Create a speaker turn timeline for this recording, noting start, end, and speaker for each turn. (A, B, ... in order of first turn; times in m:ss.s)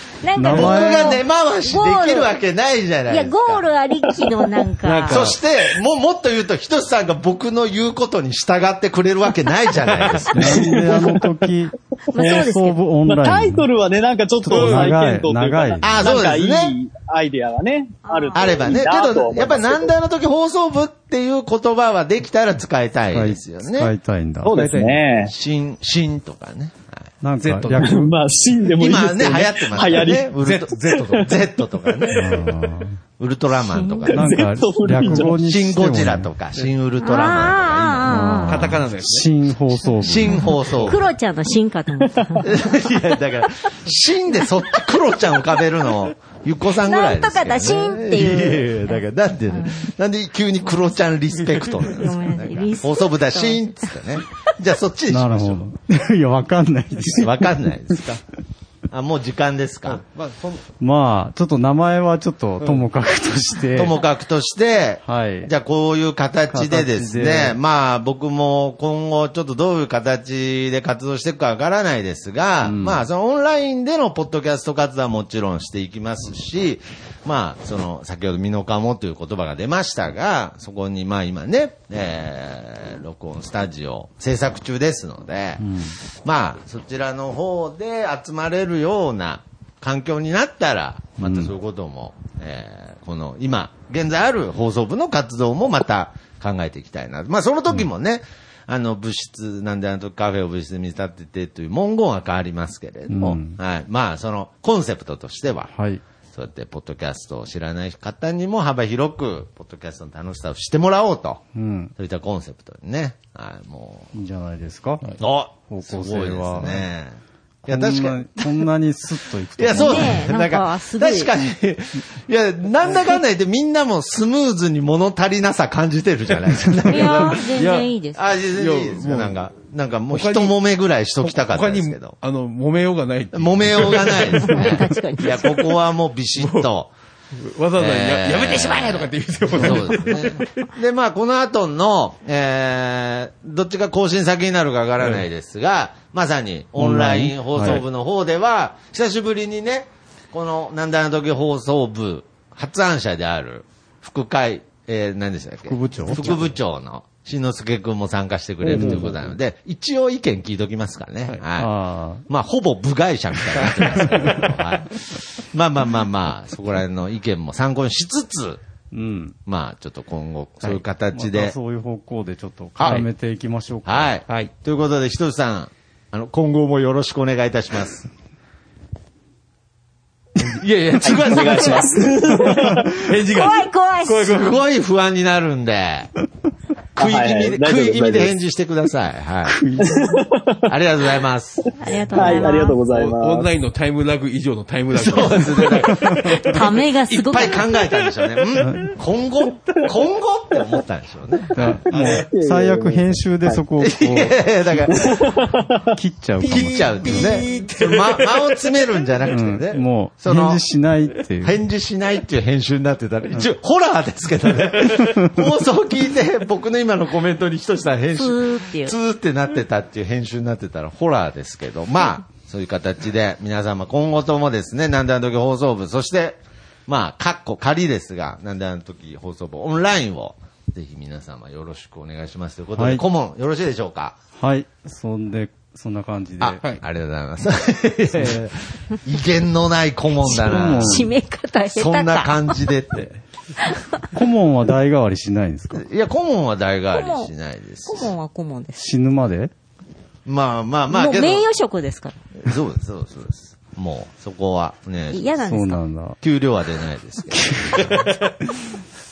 0:00.2-0:02.3 A
0:00.3-0:01.2 B
0:00.5-0:03.7 C
0:03.1-0:05.3 A
0:04.8-0:05.4 D
0:05.1-0:10.7 C
0:10.3-0:13.7 B
0:10.4-0:11.5 E
0:12.1-0:12.8 A
0:12.1-0:19.9 E
0:14.4-0:16.1 B
0:14.5-0:15.0 D
0:15.8-0:16.8 C
0:18.0-0:18.7 A
0:18.4-0:23.9 C
0:23.1-0:24.6 B
0:24.4-0:25.3 E
0:24.5-0:25.1 D
0:25.3-0:27.1 C
0:27.2-0:28.1 B
0:27.4-0:28.0 D
0:27.8-0:30.3 E
0:28.8-0:32.4 C
0:30.4-0:31.4 D
0:30.8-0:31.2 E
0:32.1-0:33.0 B
0:33.2-0:34.2 C
0:33.6-0:34.2 A
0:34.1-0:35.4 E
0:34.1-0:36.3 B
0:35.2-0:38.4 C
0:37.0-0:38.7 A
0:38.1-0:40.5 B
0:38.5-0:39.3 D
0:40.0-0:41.1 C
0:40.3-0:42.7 A
0:40.7-0:41.0 D
0:42.4-0:55.6 C
0:46.8-0:49.9 A
0:51.4-0:52.1 D
0:51.9-0:53.6 A
0:55.1-0:57.7 B
0:57.1-0:58.2 C
0:58.9-1:00.0 C
0:59.8-1:00.6 D
1:00.8-1:04.0 B
1:02.6-1:02.8 D
1:03.8-1:45.7 C
1:05.0-1:05.5 B
1:06.5-1:07.6 B
1:12.6-1:13.1 B
1:25.6-1:26.0 B
1:31.2-1:31.5 B
1:43.1-1:43.6 B
1:45.7-1:46.0 B
1:46.3-1:51.4 C
1:51.6-1:51.9 B
1:52.0-1:54.1 C
1:54.1-1:55.1 B
1:55.2-1:58.5 C
1:55.7-1:56.9 B
1:57.6-2:00.2 B
1:59.6-2:07.5 C
1:59.7-2:01.3 A
2:06.9-2:07.9 D
2:06.9-2:08.2 A
2:08.2-2:12.2 C
2:08.5-2:09.5 D
2:10.1-2:10.6 D
2:11.2-2:15.7 D
2:13.3-2:16.9 C
2:14.4-2:15.6 A
2:16.4-2:16.7 D
2:17.4-2:20.7 D
2:17.8-2:41.7 C
2:25.0-2:25.2 D
2:26.8-2:27.8 B
2:35.6-2:36.3 B
2:36.1-2:36.6 D
2:38.6-2:39.2 B
2:38.6-2:39.2 D
2:41.5-2:42.3 B
2:42.3-2:48.6 C
2:43.5-2:44.5 D
2:48.9-2:49.4 B
2:49.5-2:51.5 C
2:51.1-2:54.2 B
2:52.8-2:53.1 C
2:53.9-2:58.1 C
2:54.3-2:54.5 D
3:00.6-3:04.6 D
3:00.7-3:02.1 C
3:01.0-3:02.7 E
3:03.2-3:04.3 A
3:04.3-3:06.1 C
3:07.0-3:09.6 C
3:07.0-3:08.4 E
3:09.4-3:10.2 B
3:09.8-3:10.7 E
3:10.7-3:11.7 C
3:11.7-3:12.8 A
3:12.1-3:13.5 E
3:12.8-3:18.5 D
3:14.9-3:16.6 C
3:16.4-3:17.6 A
3:17.3-3:21.8 C
3:18.6-3:18.9 B
3:21.6-3:24.9 B
3:21.6-3:22.3 D
3:22.1-3:23.6 E
3:23.8-3:25.2 C
3:24.9-3:25.9 E
3:25.9-3:27.1 B
3:26.4-3:29.3 D
3:26.4-3:30.6 C
3:29.3-3:31.6 B
3:31.4-3:54.2 C
3:38.1-3:39.0 A
3:52.8-3:53.0 B
3:54.4-3:56.6 B
3:56.4-4:01.1 C
3:58.2-3:58.4 D
4:00.2-4:02.6 A
4:00.3-4:01.1 B
4:01.7-4:03.2 C
4:03.6-4:04.0 A
4:04.1-4:05.8 B
4:05.7-4:08.1 C
4:06.9-4:07.3 A
4:07.9-4:08.8 A
4:08.8-4:09.5 B
4:10.3-4:11.5 C
4:10.9-4:12.2 A
4:12.4-4:15.3 C
4:15.1-4:15.8 A
4:15.4-4:16.2 B
4:16.2-4:18.0 C
4:17.3-4:18.0 B
4:17.9-4:18.3 D